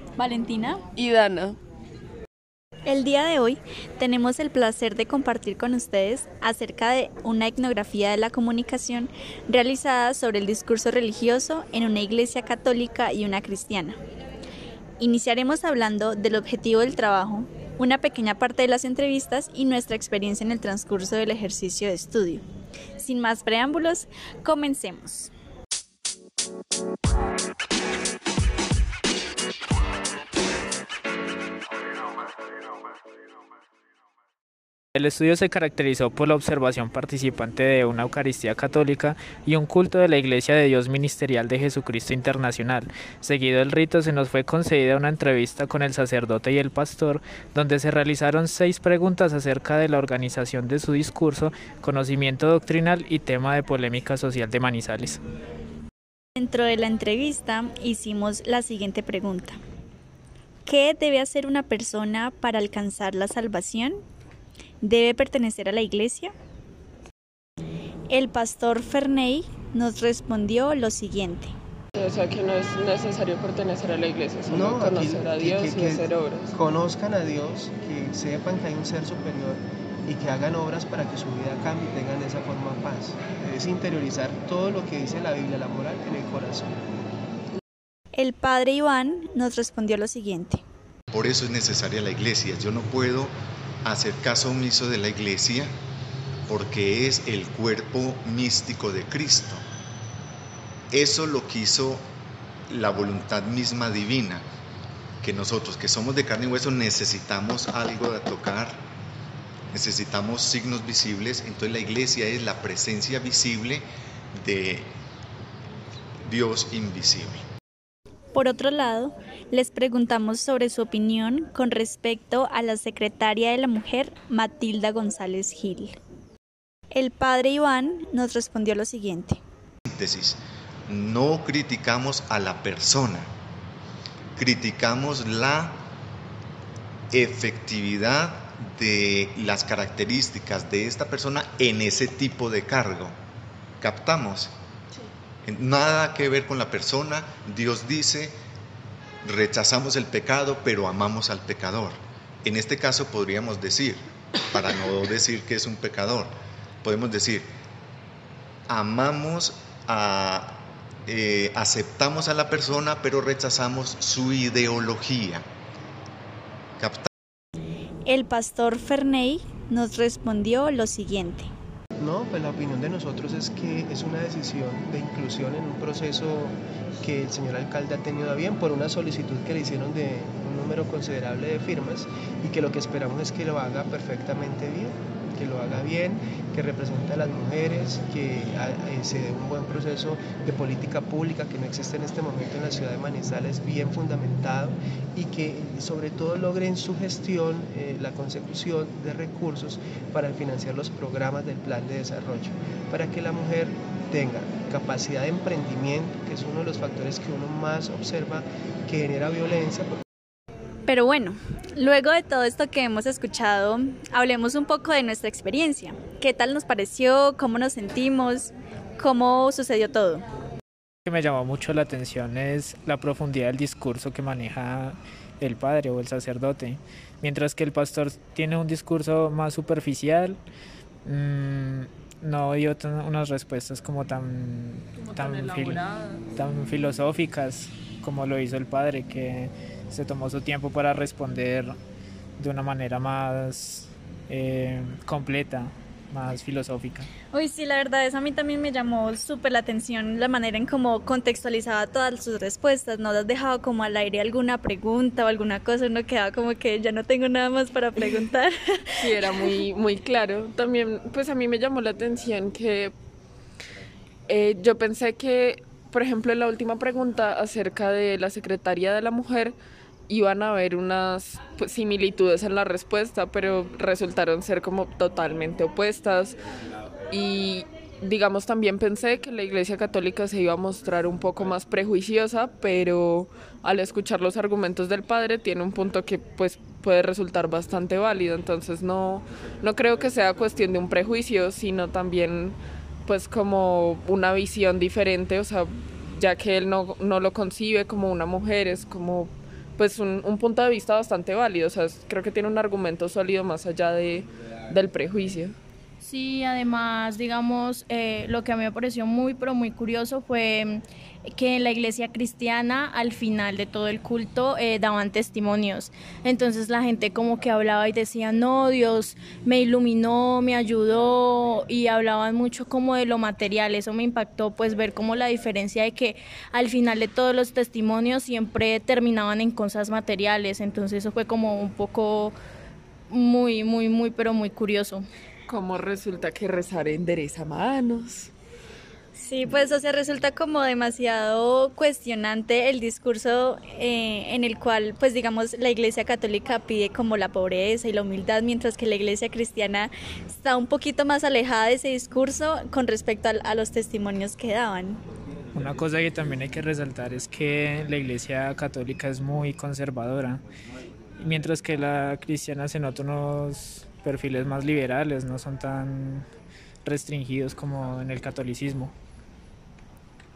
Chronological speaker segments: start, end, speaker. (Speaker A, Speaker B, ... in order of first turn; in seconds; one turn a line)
Speaker A: 0.2-0.8
Speaker A: 2.9-13.9
Speaker A: 15.0-22.4
Speaker A: 23.0-25.3
Speaker B: 35.0-55.2
Speaker A: 56.4-59.6
Speaker A: 60.6-64.0
Speaker A: 64.8-66.3
Speaker A: 68.1-71.5
Speaker C: 72.0-76.5
Speaker D: 74.5-86.8
Speaker A: 88.2-90.6
Speaker E: 91.1-95.7
Speaker E: 96.5-99.6
Speaker E: 100.9-102.1
Speaker E: 102.7-104.4
Speaker E: 105.2-108.8
Speaker E: 109.7-114.9
Speaker E: 116.2-117.4
Speaker A: 118.3-126.0
Speaker A: 126.9-129.4
Speaker E: 129.9-133.3
Speaker E: 134.4-135.8
Speaker E: 137.1-143.2
Speaker E: 143.8-144.5
Speaker E: 145.4-148.4
Speaker E: 149.2-157.5
Speaker E: 158.7-165.4
Speaker E: 166.8-167.1
Speaker A: 168.1-171.5
Speaker D: 172.0-210.0
Speaker A: 210.9-220.2
Speaker B: 221.1-230.4
Speaker B: 231.1-235.8
Speaker C: 235.0-236.2
Speaker B: 236.3-241.8
Speaker B: 242.4-247.1
Speaker A: 247.3-259.5
Speaker C: 259.0-262.9
Speaker C: 264.3-269.6
Speaker C: 270.1-276.4
Speaker C: 277.1-305.6
Speaker F: 306.0-332.4
Speaker F: 333.1-335.1
Speaker C: 335.5-338.3
Speaker A: 339.2-355.0
Speaker B: 355.5-360.4
Speaker B: 361.2-366.2
Speaker B: 366.9-368.9